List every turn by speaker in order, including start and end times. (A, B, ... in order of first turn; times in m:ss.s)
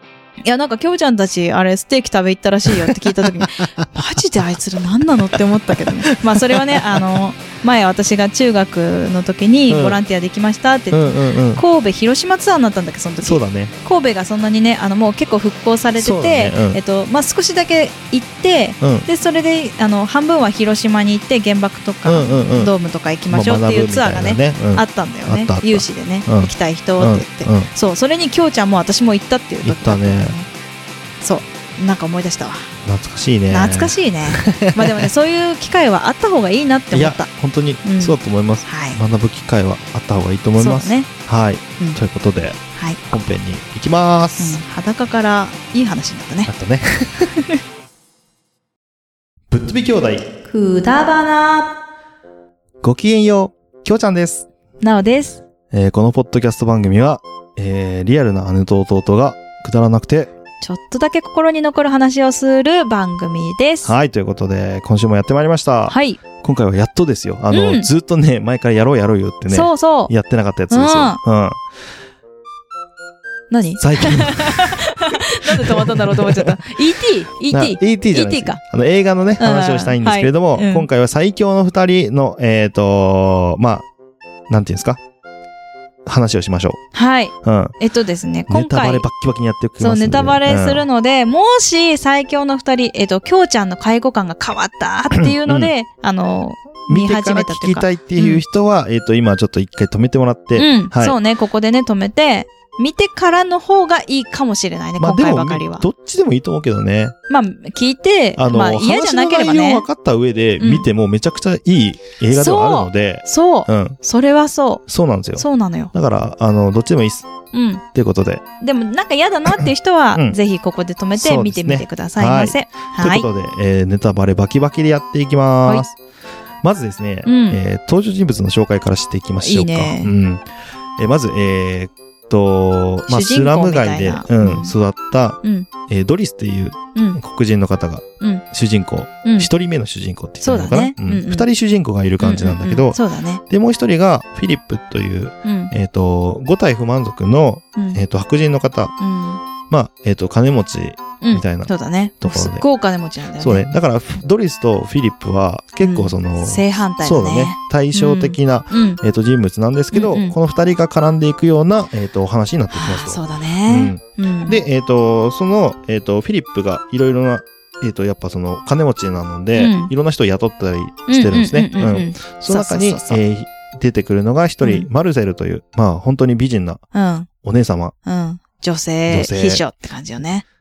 0:00.4-0:30.5 A
0:02.8-0:03.5 B
0:05.3-0:07.2 B
0:09.7-0:10.0 B
0:10.9-0:11.6 B
0:13.2-0:13.7 B
0:16.0-0:16.8 B
0:18.8-0:19.1 B
0:22.0-0:22.7 B
0:23.3-0:27.7 B
0:29.6-0:30.4 B
0:31.2-0:32.7 A
0:32.8-0:35.1 B
0:33.5-0:37.3 A
0:36.9-0:44.6 B
0:37.8-0:38.1 A
0:38.6-0:39.0 A
0:40.6-0:41.1 A
0:44.4-0:46.5 A
0:46.5-0:47.4 B
0:49.5-0:50.2 B
0:50.5-0:51.7 A
0:52.8-0:54.4 B
0:54.8-0:55.4 A
0:55.7-1:00.3 B
1:00.6-1:03.9 A
1:03.8-1:11.6 B
1:05.9-1:06.2 A
1:07.5-1:07.9 A
1:09.5-1:10.1 A
1:10.7-1:11.2 A
1:13.5-1:18.6 A
1:13.8-1:16.7 B
1:17.5-1:23.9 B
1:19.4-1:20.9 A
1:24.5-1:25.0 B
1:26.0-1:26.8 B
1:26.9-1:29.0 A
1:27.4-1:27.7 B
1:28.5-1:30.8 B
1:29.8-1:38.4 A
1:35.1-1:35.7 B
1:36.9-1:41.2 B
1:40.5-1:45.8 A
1:45.0-1:47.1 B
1:47.3-1:49.8 A
1:48.4-1:54.0 B
1:50.6-1:50.8 A
1:52.3-1:54.8 A
1:54.9-1:57.3 B
1:55.4-1:55.9 A
1:57.5-1:57.8 A
1:57.9-1:58.4 B
1:58.6-2:03.2 A
1:59.6-2:00.4 B
2:01.2-2:06.0 B
2:06.6-2:10.4 B
2:07.2-2:07.6 A
2:09.4-2:10.1 A
2:11.0-2:28.9 B
2:13.1-2:14.7 A
2:15.4-2:15.7 A
2:16.9-2:17.2 A
2:19.2-2:19.5 A
2:20.4-2:21.5 A
2:22.2-2:23.4 A
2:25.4-2:25.7 A
2:29.0-2:29.4 A
2:29.7-2:32.6 B
2:31.2-2:33.6 A
2:33.4-2:56.8 B
2:35.8-2:39.0 A
2:39.9-2:40.3 A
2:42.7-2:44.6 A
2:49.6-2:49.9 A
2:51.1-2:53.2 A
2:54.6-2:54.9 A
2:56.9-2:57.3 A
2:57.4-2:57.9 B
2:58.0-3:00.4 A
2:59.1-2:59.6 B